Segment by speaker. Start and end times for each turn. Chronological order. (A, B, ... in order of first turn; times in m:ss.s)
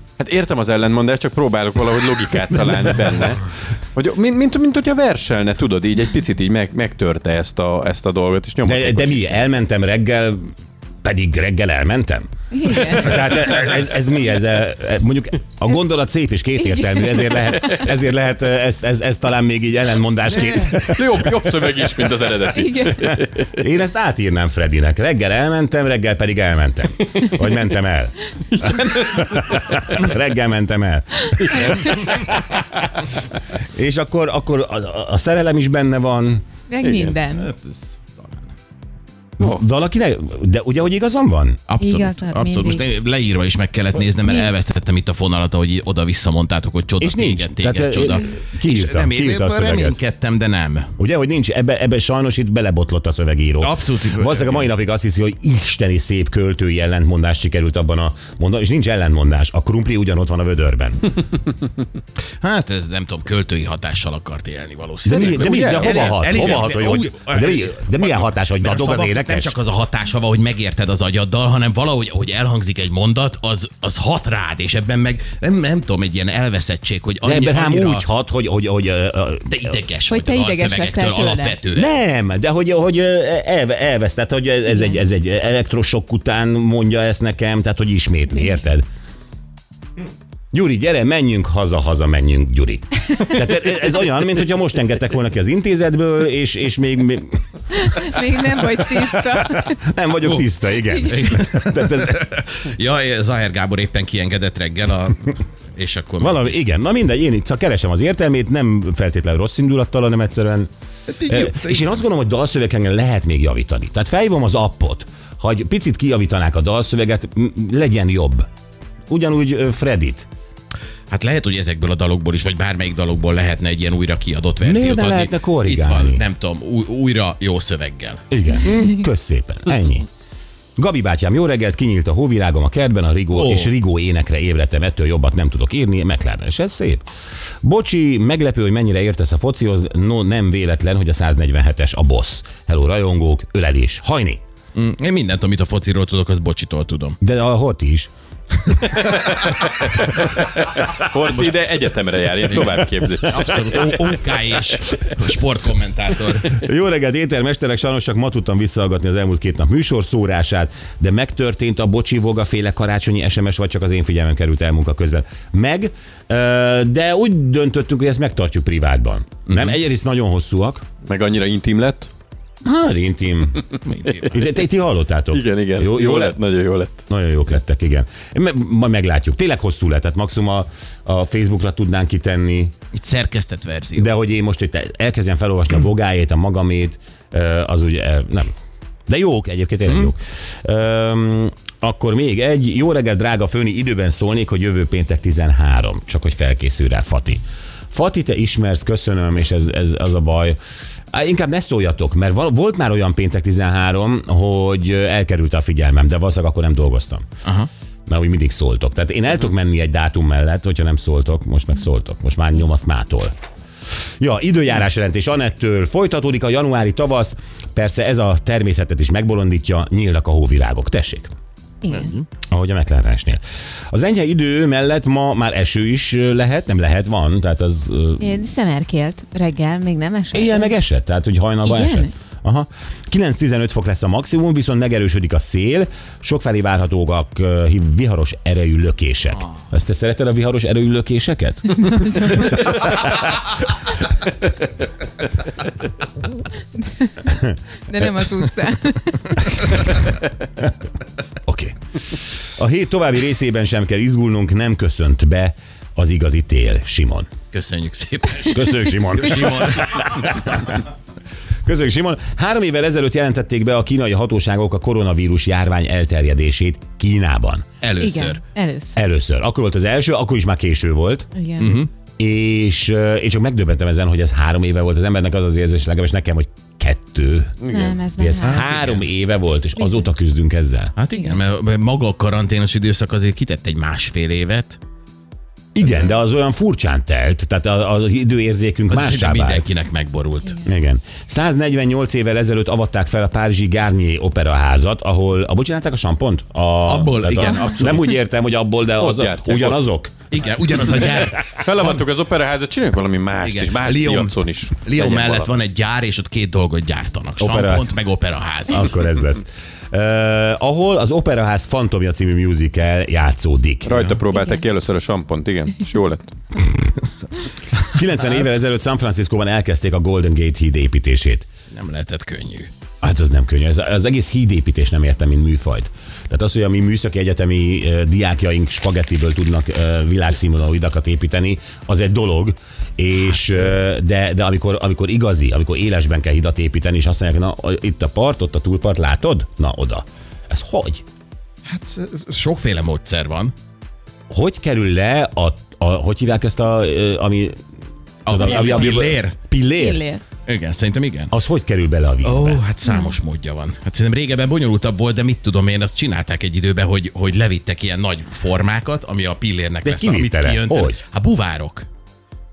0:00.2-0:03.4 A
0:03.9-0:09.4 A
0:08.6-0:10.5 B
0:11.0-0:22.0 B
0:12.5-0:13.3 C
0:20.6-0:23.5 A
0:22.5-0:23.1 C
0:23.1-0:32.9 B
0:33.6-0:36.4 B
0:36.7-0:37.5 C
0:36.8-0:37.1 A
0:37.4-0:38.4 D
0:39.4-0:41.6 B
0:41.7-0:50.9 D
0:41.8-0:42.8 C
0:47.0-0:50.0 B
0:51.0-1:01.2 B
0:53.6-0:54.7 D
1:02.4-1:18.0 D
1:05.0-1:09.6 B
1:05.1-1:06.5 A
1:17.2-1:19.8 B
1:19.5-1:21.9 D
1:20.1-1:21.6 C
1:21.7-1:28.8 B
1:30.5-1:37.4 B
1:37.7-1:39.8 C
1:38.8-1:42.4 B
1:40.2-1:46.5 D
1:46.2-1:50.7 B
1:51.1-1:52.0 D
1:51.2-1:58.5 B
1:59.1-2:00.3 B
2:01.1-2:08.2 D
2:04.6-2:06.2 B
2:08.3-2:10.1 B
2:10.8-2:17.0 B
2:13.3-2:13.7 D
2:17.6-2:24.4 B
2:24.7-2:27.2 D
2:27.2-2:28.1 B
2:28.9-2:33.7 A
2:33.2-2:36.6 D
2:36.5-2:50.8 B
2:49.5-2:49.8 D
2:51.0-2:52.1 A
2:52.6-2:53.6 B
2:53.8-2:54.4 D
2:54.2-2:56.4 B
2:55.3-2:57.0 A
2:57.1-3:02.7 B
3:02.9-3:04.1 D
3:04.0-3:08.5 B
3:09.1-3:20.6 B
3:21.1-3:27.3 B
3:27.4-3:27.7 D
3:28.1-3:33.3 B
3:34.2-3:41.3 B
3:41.8-3:42.1 C
3:41.9-3:42.2 D
3:42.5-3:48.4 B
3:48.2-3:50.7 C
3:50.3-4:03.3 B
3:51.6-3:52.1 C
4:01.8-4:02.6 C
4:06.8-4:07.3 C
4:07.3-4:07.6 B
4:07.9-4:09.7 C
4:11.4-4:17.3 B
4:17.5-4:20.7 D
4:18.4-4:20.8 B
4:21.6-4:27.7 B
4:27.8-4:28.4 D
4:28.0-4:29.0 C
4:28.9-4:31.3 B
4:31.3-4:31.8 C
4:31.6-4:31.9 D
4:32.2-4:40.9 B
4:37.6-4:38.0 A
4:37.7-4:38.7 C
4:38.4-4:39.0 D
4:41.0-4:44.8 D
4:45.7-4:49.6 B
4:48.9-4:50.6 D
4:50.6-5:00.2 B
4:56.8-4:58.1 D
4:59.0-4:59.8 A
5:00.3-5:01.9 D
5:01.5-5:05.5 A
5:03.4-5:09.0 D
5:07.4-5:07.9 B
5:08.7-5:14.2 B
5:13.8-5:16.3 A
5:17.8-5:21.5 B
5:21.7-5:22.7 D
5:23.0-5:41.0 B
5:41.6-5:43.5 D
5:44.3-5:47.6 B
5:48.2-5:49.4 D
5:48.2-5:50.0 B
5:48.4-5:49.0 C
5:49.8-5:50.2 C
5:50.4-5:51.3 D
5:51.3-5:52.6 B
5:52.2-6:01.8 D
5:52.8-5:53.1 C
5:59.8-6:01.0 B